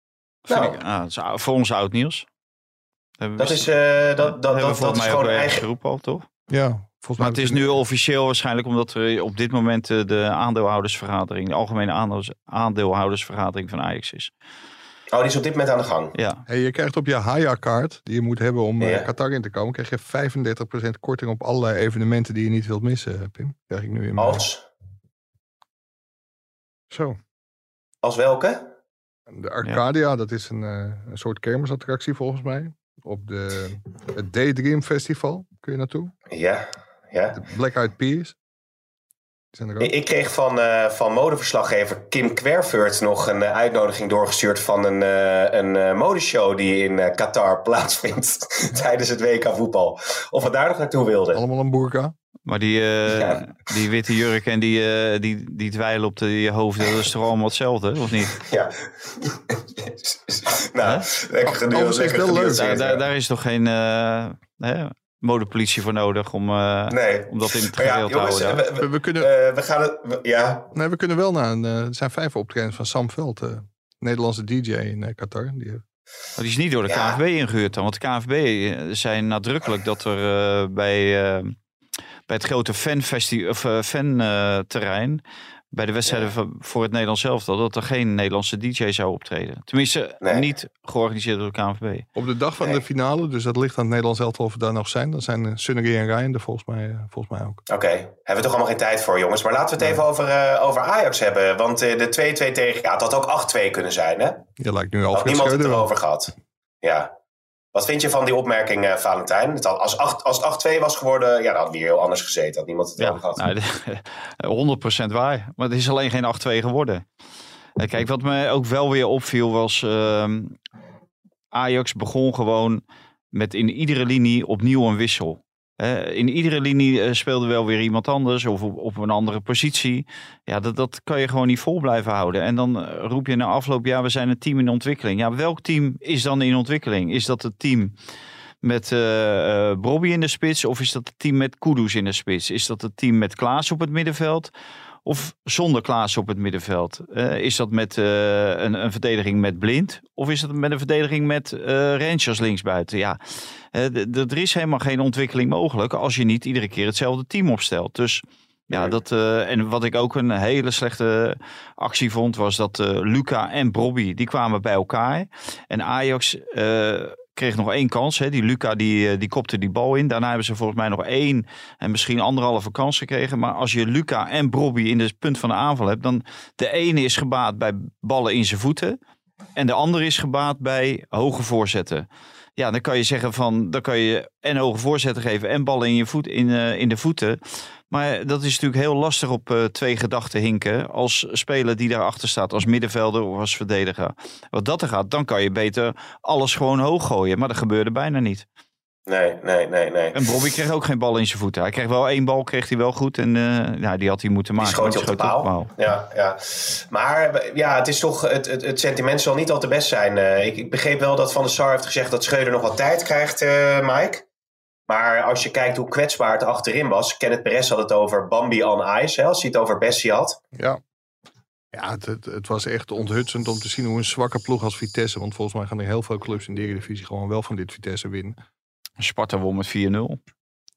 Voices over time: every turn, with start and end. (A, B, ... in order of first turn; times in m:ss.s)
0:00.5-0:02.2 A
0:00.5-0:00.7 B
0:03.2-0:03.7 A
0:03.4-0:05.6 B
0:04.2-0:06.3 A
0:06.5-0:07.7 C
0:07.2-0:14.3 A
0:15.1-0:16.1 B
0:16.1-0:16.4 A
0:16.5-0:24.4 C
0:18.8-0:19.1 B
0:24.2-0:24.6 B
0:26.9-0:27.2 C
0:28.0-0:28.6 B
0:29.3-0:36.1 C
0:36.3-0:37.4 B
0:37.3-0:38.4 C
0:39.5-0:39.9 C
0:39.8-0:51.4 B
0:51.3-0:52.1 C
0:52.4-0:58.4 A
0:53.1-0:53.4 B
0:58.3-1:03.0 B
1:00.8-1:01.1 A
1:01.4-1:02.7 C
1:02.5-1:08.6 A
1:06.9-1:10.7 B
1:08.8-1:09.3 C
1:10.7-1:15.8 C
1:16.4-1:21.6 A
1:16.9-1:17.2 B
1:22.3-1:32.0 A
1:30.2-1:30.5 B
1:32.1-1:37.6 C
1:37.7-1:44.4 B
1:44.6-1:45.9 C
1:45.1-1:47.1 B
1:47.7-1:53.4 B
1:53.0-1:57.0 A
1:57.8-2:00.6 A
2:01.5-2:02.8 A
2:03.3-2:17.9 A
2:18.6-2:24.5 A
2:25.0-2:59.0 A
2:38.7-2:39.0 B
2:59.6-3:02.0 A
3:02.6-3:18.4 A
3:19.1-3:20.2 B
3:20.1-3:25.7 A
3:24.6-3:34.2 B
3:34.9-3:40.4 B
3:40.5-3:40.8 C
3:41.7-3:48.4 C
3:49.0-3:50.2 A